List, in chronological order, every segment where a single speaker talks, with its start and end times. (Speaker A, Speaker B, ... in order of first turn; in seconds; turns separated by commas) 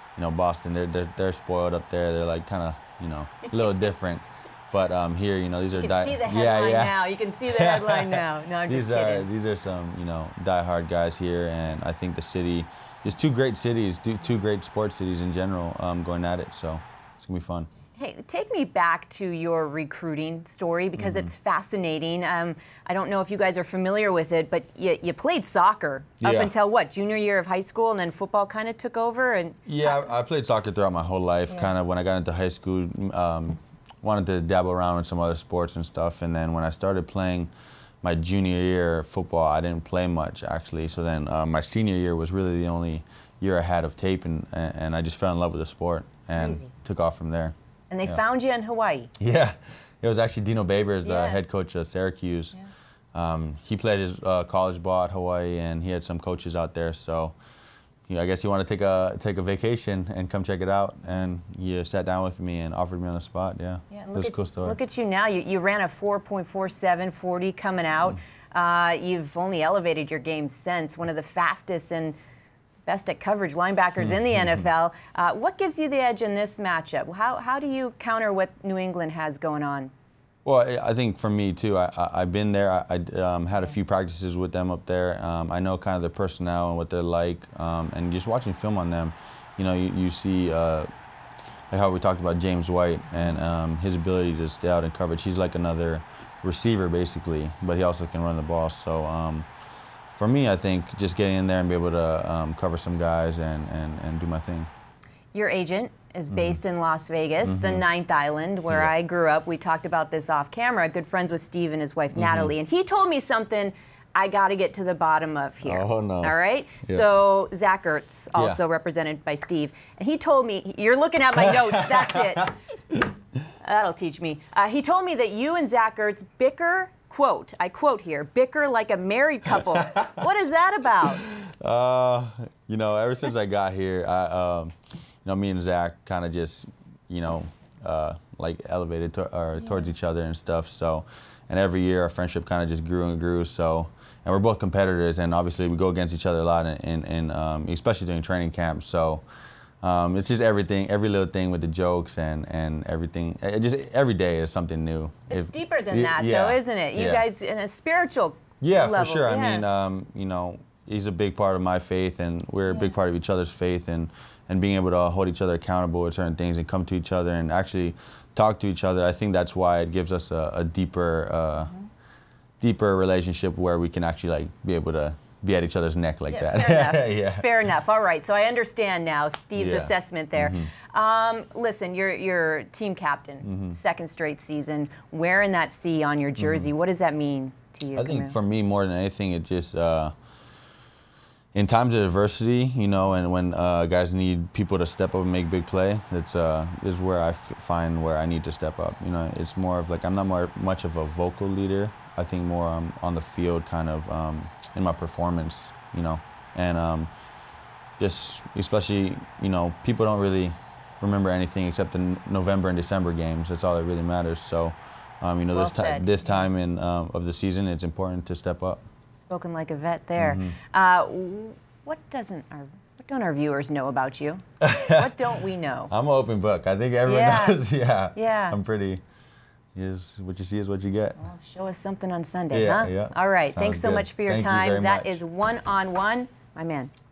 Speaker A: 0.1-17.7, Speaker B: 5.7-9.3, Speaker B: 18.0-30.1, Speaker A: 20.9-21.3, Speaker A: 26.2-26.5, Speaker A: 29.7-37.5, Speaker A: 38.0-48.2, Speaker B: 46.3-46.7, Speaker B: 47.9-49.1, Speaker A: 49.2-52.5, Speaker B: 51.0-51.4, Speaker A: 53.1-57.4, Speaker A: 58.1-64.8, Speaker B: 63.9-72.1, Speaker B: 72.8-79.9, Speaker A: 80.4-90.9, Speaker A: 91.7-99.5, Speaker A: 100.2-104.7, Speaker B: 105.3-122.5, Speaker A: 106.3-106.6, Speaker A: 107.4-107.8, Speaker A: 112.1-112.5, Speaker A: 115.6-117.0, Speaker A: 118.3-118.6, Speaker A: 121.4-123.1, Speaker B: 123.5-131.2, Speaker A: 131.2-149.2, Speaker A: 149.8-157.2, Speaker B: 155.3-159.6, Speaker A: 158.6-171.7, Speaker B: 162.7-162.9, Speaker B: 171.6-171.9, Speaker A: 172.6-177.6, Speaker B: 176.3-188.4, Speaker A: 179.6-180.7, Speaker A: 183.4-183.8, Speaker A: 186.4-186.7, Speaker A: 187.9-190.1, Speaker A: 191.5-207.1, Speaker A: 208.0-218.8, Speaker B: 215.5-216.5, Speaker B: 219.2-225.9, Speaker A: 220.2-220.6, Speaker A: 224.6-225.2, Speaker A: 225.9-229.0, Speaker B: 227.1-227.6, Speaker B: 228.1-228.6, Speaker A: 229.7-231.2, Speaker B: 231.2-236.9, Speaker A: 232.5-235.2